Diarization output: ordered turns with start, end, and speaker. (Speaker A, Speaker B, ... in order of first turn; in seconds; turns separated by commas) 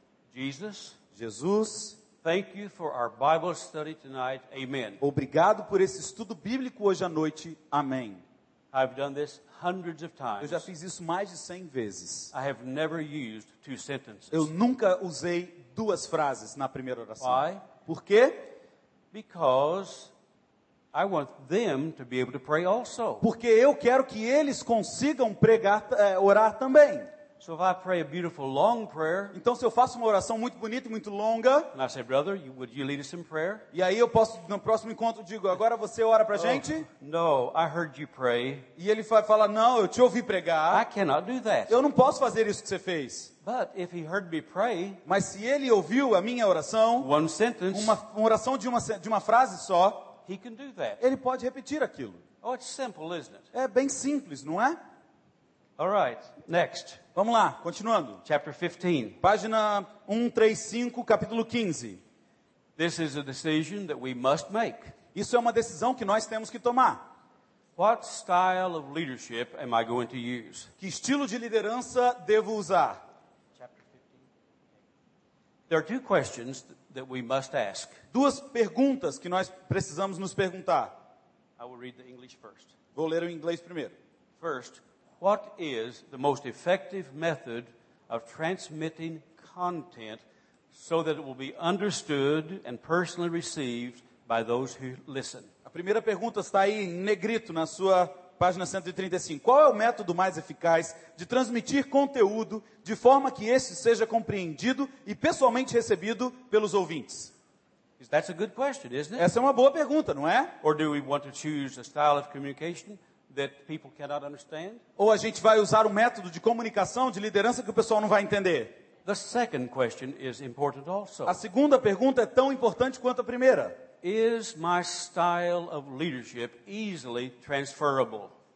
Speaker A: 0.3-1.0, Speaker B: 1.1-2.0, Speaker A: 2.2-5.0, Speaker B: 5.0-8.2, Speaker A: 8.7-10.7, Speaker B: 10.4-12.3, Speaker A: 12.3-14.5, Speaker B: 14.3-18.5, Speaker A: 17.2-17.6, Speaker A: 19.1-20.1, Speaker A: 20.9-23.2, Speaker B: 23.2-27.1, Speaker A: 27.4-29.4, Speaker B: 29.3-31.7, Speaker A: 31.7-33.6, Speaker B: 33.7-36.9, Speaker A: 36.3-38.7, Speaker B: 38.8-40.9, Speaker A: 40.7-41.8, Speaker B: 41.7-43.3, Speaker A: 43.4-45.0, Speaker B: 45.0-47.1, Speaker A: 47.0-48.0, Speaker B: 47.7-50.1, Speaker A: 50.2-51.0, Speaker B: 51.0-52.2, Speaker A: 52.4-53.5, Speaker B: 53.5-54.8, Speaker A: 55.8-57.0, Speaker B: 57.1-58.2, Speaker A: 58.2-59.2, Speaker B: 59.2-62.0, Speaker A: 62.8-64.9, Speaker B: 65.1-67.0, Speaker A: 67.8-70.7, Speaker B: 70.8-73.0, Speaker A: 73.6-74.2, Speaker A: 75.7-78.0, Speaker B: 78.1-80.9, Speaker A: 81.6-82.7, Speaker B: 82.9-83.9, Speaker A: 84.4-95.5, Speaker B: 95.7-107.3, Speaker A: 108.0-109.3, Speaker B: 109.2-110.5, Speaker A: 110.6-114.8, Speaker B: 115.0-118.7, Speaker A: 119.0-121.4, Speaker B: 121.2-123.8, Speaker A: 124.0-128.3